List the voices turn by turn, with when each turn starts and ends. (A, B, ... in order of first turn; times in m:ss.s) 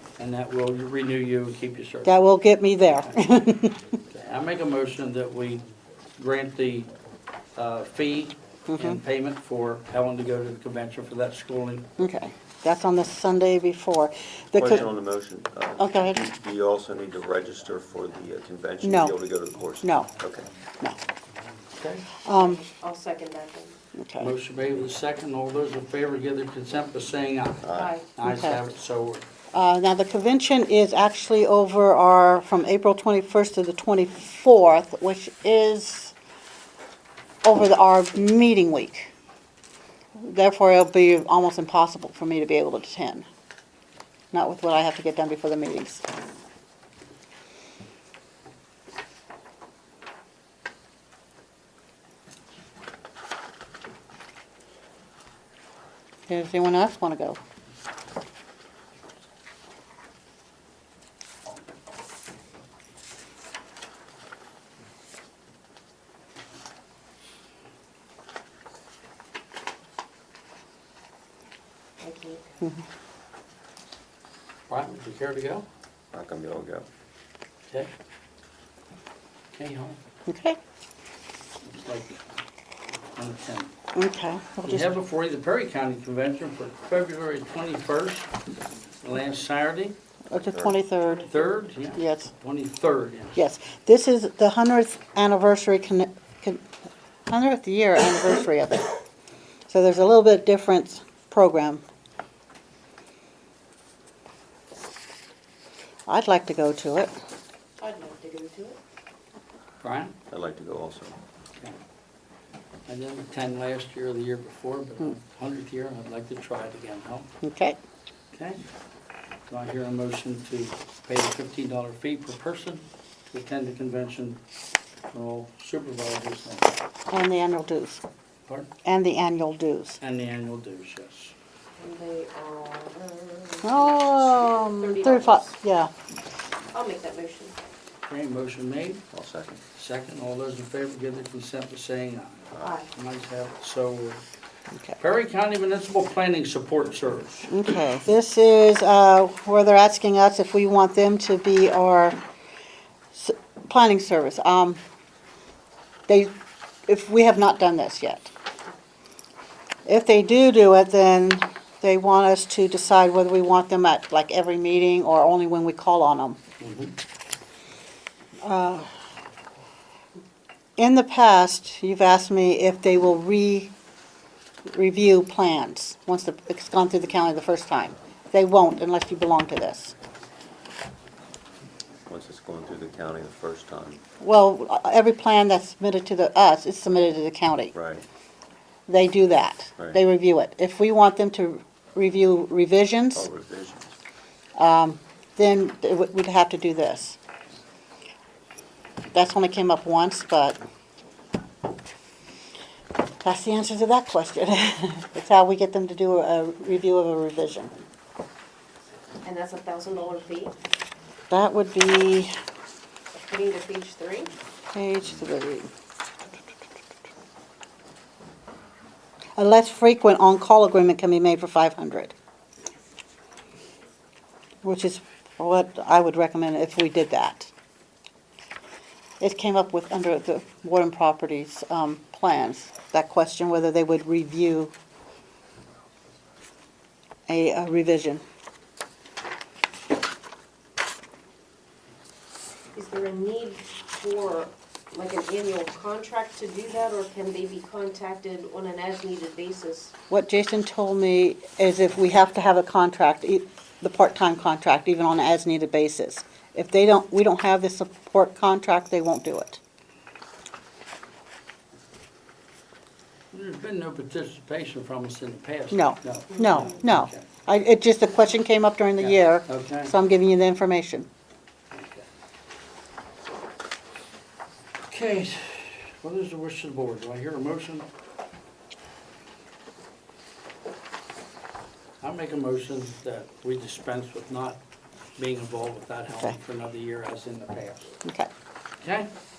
0:00.2-0:02.2 A
0:02.0-0:04.0 B
0:04.1-0:05.6 A
0:06.2-0:06.9 A
0:07.6-0:11.9 A
0:08.7-0:09.0 B
0:12.0-0:14.9 B
0:14.5-0:20.5 C
0:15.8-0:16.2 B
0:18.8-0:19.2 B
0:19.8-0:20.1 B
0:21.8-0:22.1 A
0:22.2-0:22.6 B
0:22.3-0:23.8 D
0:23.9-0:24.3 B
0:24.2-0:29.2 A
0:27.6-0:28.0 C
0:27.7-0:28.0 D
0:28.2-0:28.6 B
0:29.5-0:36.1 B
0:37.4-0:39.1 B
0:40.2-0:43.3 B
0:44.3-0:46.0 B
0:56.3-0:57.4 B
1:12.0-1:12.6 D
1:14.7-1:15.7 A
1:16.1-1:16.9 C
1:19.5-1:20.0 A
1:20.3-1:20.6 B
1:21.6-1:22.2 A
1:23.1-1:23.7 A
1:23.9-1:24.9 B
1:24.6-1:28.3 A
1:29.0-1:30.0 A
1:30.3-1:31.4 B
1:31.2-1:33.4 A
1:31.9-1:32.3 B
1:33.4-1:36.6 B
1:37.3-1:38.9 B
1:39.7-1:41.8 B
1:46.1-1:47.1 B
1:47.8-1:48.8 D
1:49.8-1:50.2 A
1:50.3-1:51.2 C
1:52.9-1:57.3 A
1:57.4-1:57.8 B
1:58.3-1:58.6 A
1:59.5-2:04.4 A
2:05.1-2:06.8 A
2:07.1-2:08.0 B
2:08.8-2:10.0 B
2:10.0-2:11.3 A
2:11.8-2:15.6 D
2:13.6-2:15.9 B
2:16.7-2:17.6 D
2:18.1-2:19.0 A
2:19.1-2:19.6 C
2:19.7-2:24.2 A
2:22.5-2:22.8 C
2:22.6-2:22.9 D
2:25.0-2:27.5 A
2:27.5-2:32.2 B
2:33.1-2:34.8 B
2:36.1-2:36.3 B
2:36.9-2:38.3 B
2:39.8-2:46.4 B
2:46.6-2:46.9 A
2:48.4-2:48.9 B
2:50.8-2:53.7 B
2:54.7-2:59.9 B
3:02.1-3:04.0 C
3:04.2-3:07.7 B
3:07.7-3:08.0 C
3:08.9-3:13.3 B
3:13.2-3:14.0 C
3:14.6-3:17.2 B
3:19.1-3:20.6 B
3:23.2-3:27.7 B
3:29.2-3:30.6 D
3:31.3-3:32.3 B
3:33.2-3:34.3 D
3:34.7-3:35.7 B
3:39.4-3:42.1 B
3:44.6-3:47.5 B
3:49.2-3:54.7 B
3:57.3-3:58.2 B
4:02.7-4:09.9 D
4:10.1-4:19.6 B
4:23.3-4:27.2 A
4:25.7-4:31.1 B
4:26.3-4:26.8 D
4:29.0-4:29.9 A
4:31.7-4:32.1 A
4:34.9-4:37.9 A
4:42.0-4:44.6 A
4:45.2-4:48.0 A
4:48.0-4:48.3 B
4:48.8-4:49.1 A